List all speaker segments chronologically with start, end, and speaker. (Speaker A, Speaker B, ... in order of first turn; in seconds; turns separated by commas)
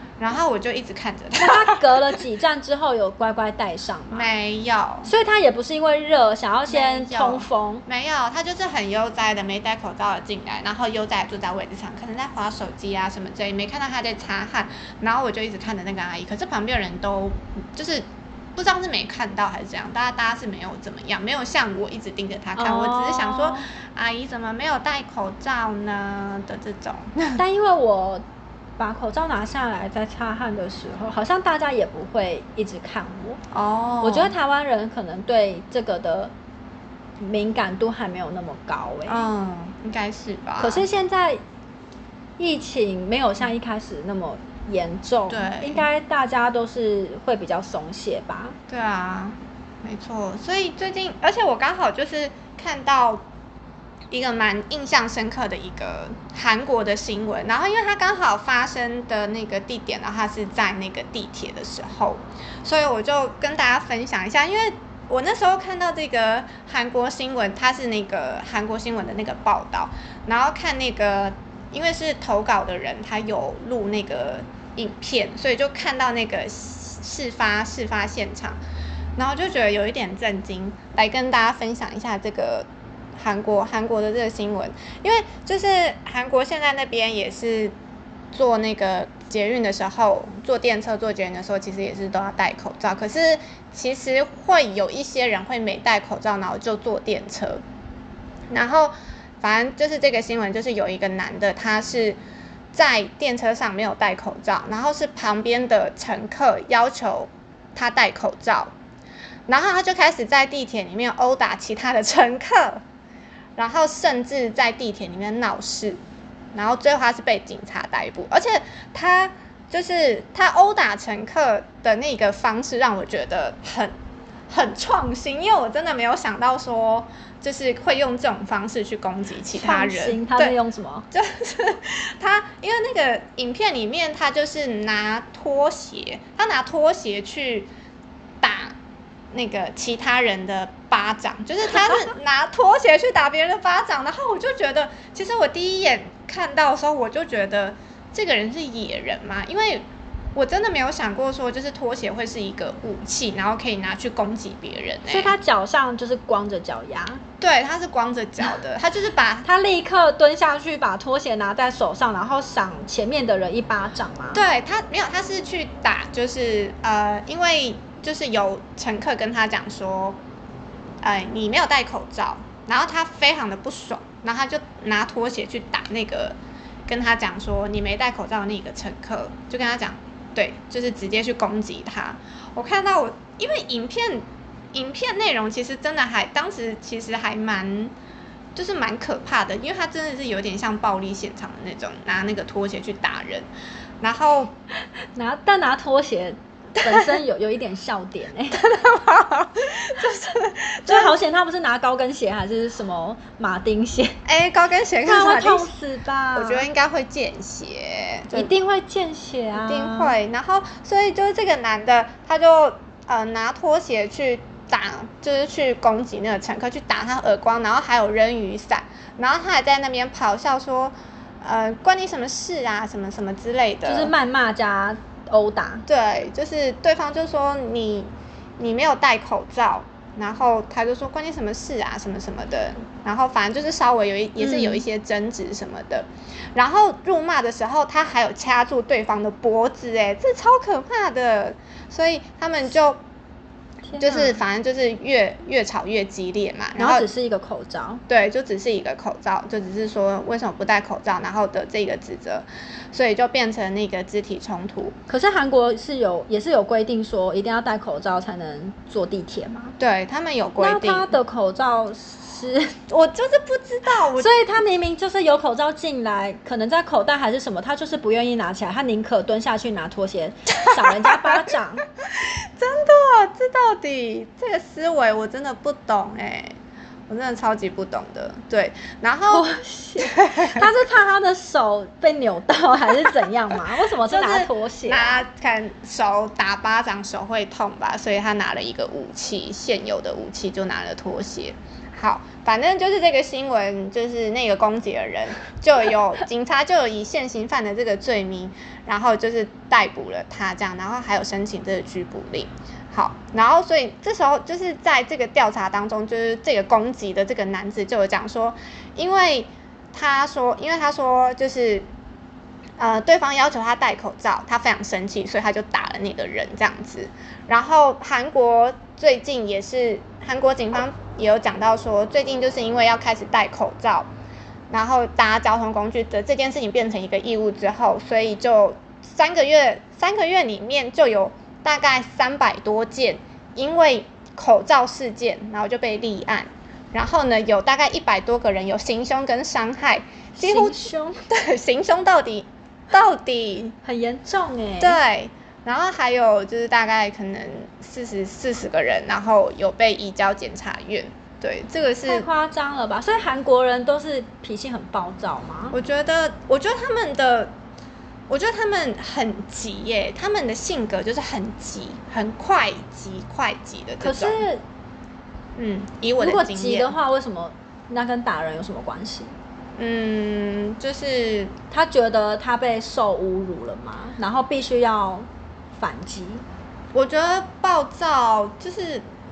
Speaker A: 0.2-2.2, Speaker B: 1.4-4.3, Speaker A: 4.1-5.1, Speaker B: 5.0-7.8, Speaker A: 6.7-27.4, Speaker B: 22.6-23.7, Speaker B: 27.4-28.2, Speaker B: 28.8-33.4, Speaker A: 33.5-34.4, Speaker B: 34.0-36.3, Speaker B: 37.2-39.3, Speaker A: 39.1-40.9, Speaker B: 40.6-41.4, Speaker B: 42.4-48.6, Speaker A: 45.3-45.9, Speaker A: 48.7-53.2, Speaker A: 54.1-78.6, Speaker A: 79.2-87.7, Speaker A: 88.3-97.6, Speaker A: 98.5-102.2, Speaker A: 102.7-108.7, Speaker A: 109.5-112.8, Speaker A: 113.6-116.0, Speaker A: 116.5-123.9, Speaker A: 124.5-130.6, Speaker B: 129.5-131.1, Speaker A: 131.1-137.7, Speaker A: 138.4-138.8, Speaker A: 139.3-155.3, Speaker B: 155.1-157.2, Speaker A: 157.4-159.5, Speaker B: 159.4-164.4, Speaker A: 164.3-170.2, Speaker A: 171.0-187.9, Speaker A: 188.6-193.5, Speaker A: 194.0-194.5, Speaker B: 195.2-198.6, Speaker A: 196.8-197.2, Speaker A: 198.5-201.2, Speaker B: 200.9-204.2, Speaker A: 204.2-205.7, Speaker B: 205.0-206.7, Speaker A: 206.3-208.5, Speaker B: 208.3-210.2, Speaker A: 209.5-224.1, Speaker B: 223.9-225.9, Speaker A: 225.9-243.0, Speaker B: 234.4-234.8, Speaker B: 243.9-244.4, Speaker A: 244.0-247.1, Speaker B: 246.8-248.0, Speaker A: 248.1-255.0, Speaker B: 255.1-259.8, Speaker A: 259.8-261.2, Speaker B: 260.6-262.8, Speaker A: 262.9-264.3, Speaker B: 264.1-271.9, Speaker A: 270.6-276.6, Speaker A: 277.1-280.7, Speaker B: 279.3-285.2, Speaker A: 284.0-311.9, Speaker A: 312.8-324.1, Speaker A: 324.7-343.8, Speaker B: 340.4-341.3, Speaker B: 343.8-345.0, Speaker A: 344.8-352.3, Speaker B: 352.1-355.8, Speaker A: 355.7-357.5, Speaker A: 358.3-364.4, Speaker B: 364.0-364.6, Speaker A: 365.6-366.9, Speaker B: 366.2-369.4, Speaker A: 369.8-371.5, Speaker B: 371.7-376.4, Speaker A: 376.9-379.1